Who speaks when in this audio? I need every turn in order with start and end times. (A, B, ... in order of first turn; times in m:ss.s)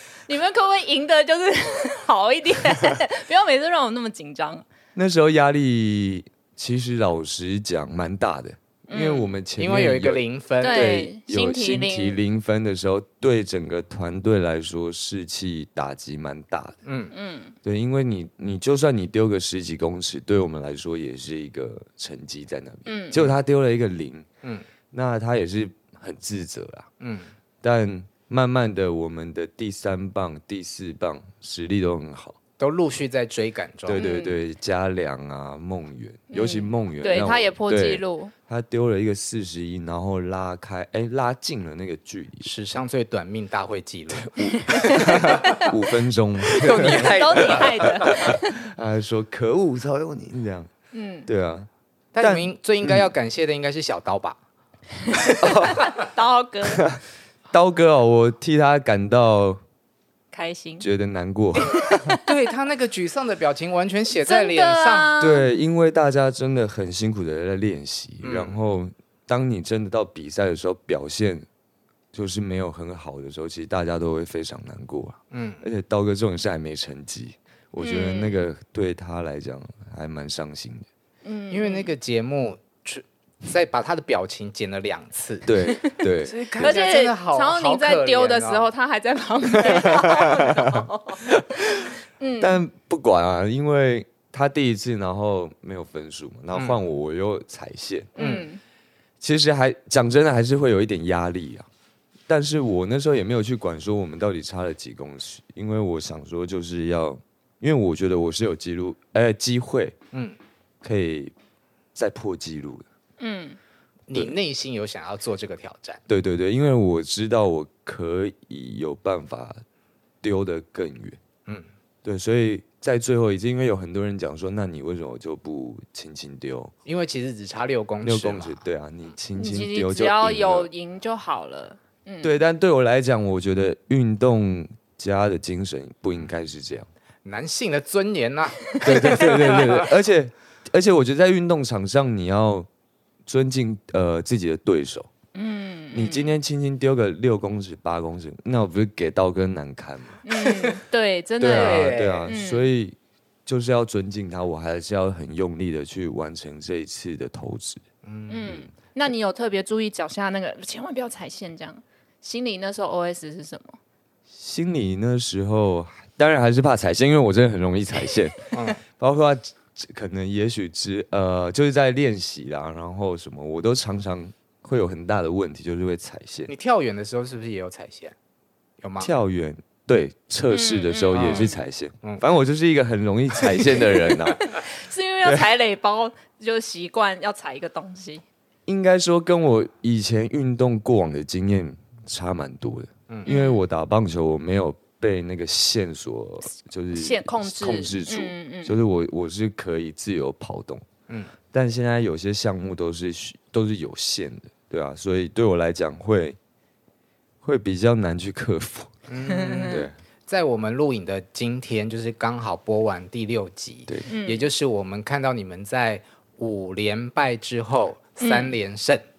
0:00.3-0:04.6 A
0:05.0-0:16.8 B
0:08.9-0:09.3 A
0:09.6-0:10.9 C
0:10.6-0:12.2 A
0:16.8-0:17.1 C
0:17.1-0:17.6 A
0:17.6-0:24.3 B
0:22.9-0:23.3 A
0:24.9-0:26.9 B
0:27.0-0:27.3 C
0:27.6-0:32.4 B
0:32.6-0:34.1 C
0:33.9-0:42.5 B
0:34.0-0:34.4 A
0:36.3-0:38.3 A
0:42.4-0:45.6 C
0:44.1-0:50.7 B
0:46.5-0:48.3 C
0:46.6-0:48.6 A
0:50.9-0:51.3 A
0:51.3-0:53.0 B
0:52.1-0:54.4 C
0:55.2-0:56.8 A
0:55.4-0:55.9 B
0:56.7-0:57.0 B
0:57.5-0:59.6 B
1:00.3-1:00.9 A
1:00.8-1:02.0 B
1:01.7-1:02.2 A
1:02.2-1:05.1 C
1:04.2-1:05.5 A
1:05.2-1:11.5 B
1:08.2-1:08.6 C
1:12.1-1:20.9 B
1:15.3-1:15.6 C
1:17.8-1:18.4 A
1:21.2-1:21.9 A
1:21.5-1:25.5 C
1:25.5-1:26.7 B
1:26.2-1:28.7 C
1:26.6-1:32.6 A
1:29.6-1:30.2 C
1:32.4-1:38.1 B
1:38.2-1:38.6 A
1:38.2-1:38.5 C
1:39.2-1:41.7 B
1:42.3-1:50.0 B
1:50.1-1:50.4 C
1:50.8-1:51.3 B
1:52.0-1:52.8 B
1:53.2-1:53.6 A
1:54.1-1:56.0 C
1:56.1-1:59.6 B
2:00.2-2:01.2 B
2:02.0-2:06.7 B
2:06.9-2:08.6 C
2:08.0-2:10.7 B
2:09.4-2:12.3 A
2:12.2-2:16.9 B
2:17.2-2:19.9 C
2:18.8-2:22.7 B
2:23.3-2:25.1 B
2:25.4-2:26.3 A
2:25.9-2:30.2 B
2:30.2-2:32.7 A
2:31.4-2:37.8 B
2:31.4-2:32.3 C
2:38.0-2:38.7 C
2:38.3-2:43.8 A
2:44.3-2:56.5 B
2:48.5-2:48.8 C
2:56.5-2:58.2 C
2:58.8-2:59.1 C
2:59.0-3:04.5 B
3:00.5-3:01.6 A
3:01.1-3:02.2 C
3:04.4-3:08.2 A
3:08.7-3:20.8 B
3:13.3-3:13.6 A
3:17.0-3:18.7 A
3:21.5-3:26.4 B
3:27.4-3:28.9 B
3:29.1-3:39.0 C
3:29.3-3:29.8 A
3:29.7-3:30.0 B
3:34.1-3:34.5 A
3:38.2-3:38.5 A